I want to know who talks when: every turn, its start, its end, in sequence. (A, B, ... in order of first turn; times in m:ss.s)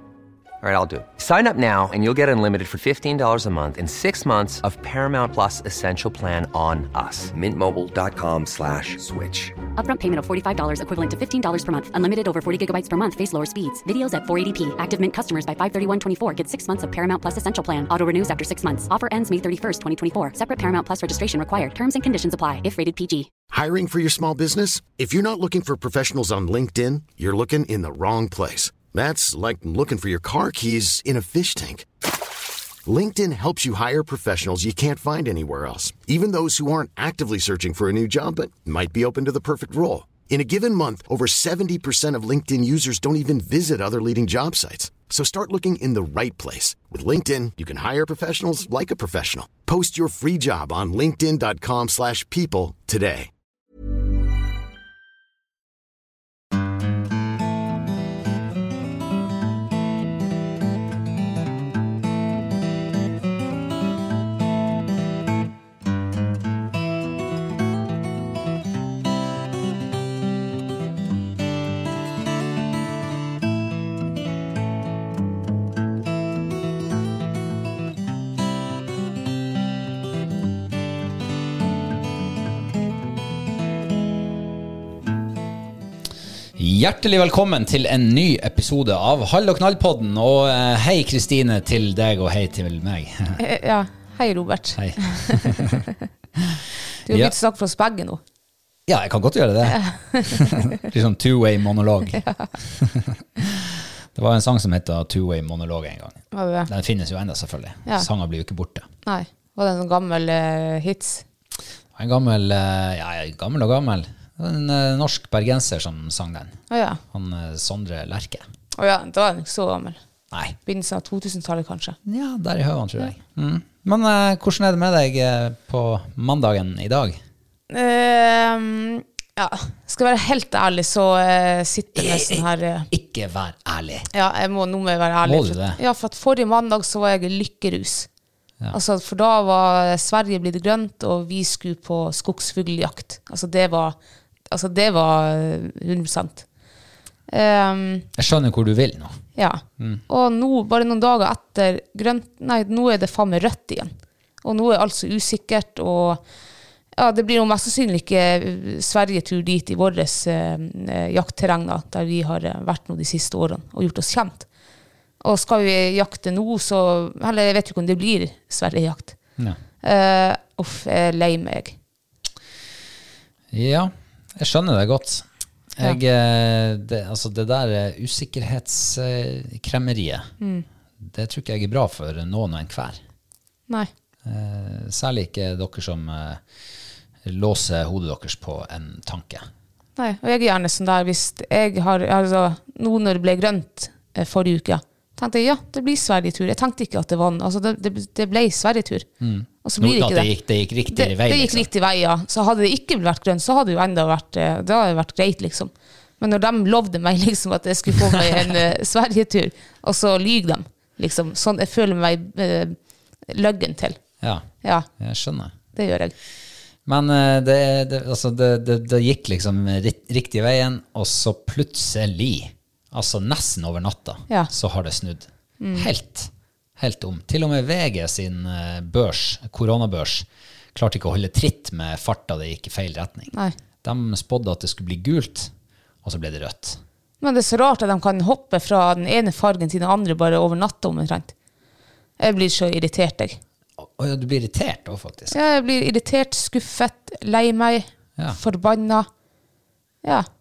0:00.6-0:09.6 A
0:09.8-0:23.3 B
0:23.5-0:31.9 C
0:32.8-0:53.3 C
1:26.6-1:33.4 D
1:33.4-1:35.8 E
1:34.7-1:35.8 D
1:36.4-1:37.3 D
1:37.0-1:38.2 E
1:38.9-1:48.9 D
1:39.7-1:40.7 E
1:42.1-1:42.5 E
1:46.3-1:46.7 E
1:49.0-1:51.2 E
1:52.0-1:58.4 D
1:56.7-1:57.0 E
1:58.7-2:00.0 E
2:00.3-2:00.6 D
2:00.6-2:02.0 E
2:02.0-2:07.2 D
2:07.7-2:12.9 E
2:12.0-2:14.1 D
2:14.1-2:18.1 E
2:15.2-2:15.8 D
2:18.7-2:24.0 E
2:24.5-2:26.4 E
2:27.3-2:28.1 E
2:28.2-2:29.2 D
2:29.4-2:36.2 E
2:37.0-2:44.5 E
2:45.2-2:49.2 E
2:49.8-2:51.8 E
2:53.5-3:00.3 D
3:00.4-3:00.6 E
3:01.0-3:03.0 D
3:04.2-3:06.4 D
3:07.2-3:09.4 D
3:10.0-3:19.1 E
3:19.2-3:21.7 D
3:19.6-3:20.3 E
3:20.9-3:32.8 E
3:27.9-3:28.5 D
3:33.3-3:34.0 E
3:34.2-3:35.5 D
3:34.6-3:34.9 E
3:35.7-3:36.1 E
3:36.8-3:55.5 D
3:45.6-3:45.9 E
3:56.0-3:56.8 D
3:57.2-4:01.3 E
4:02.2-4:03.4 E
4:03.8-4:05.4 D
4:05.3-4:09.1 E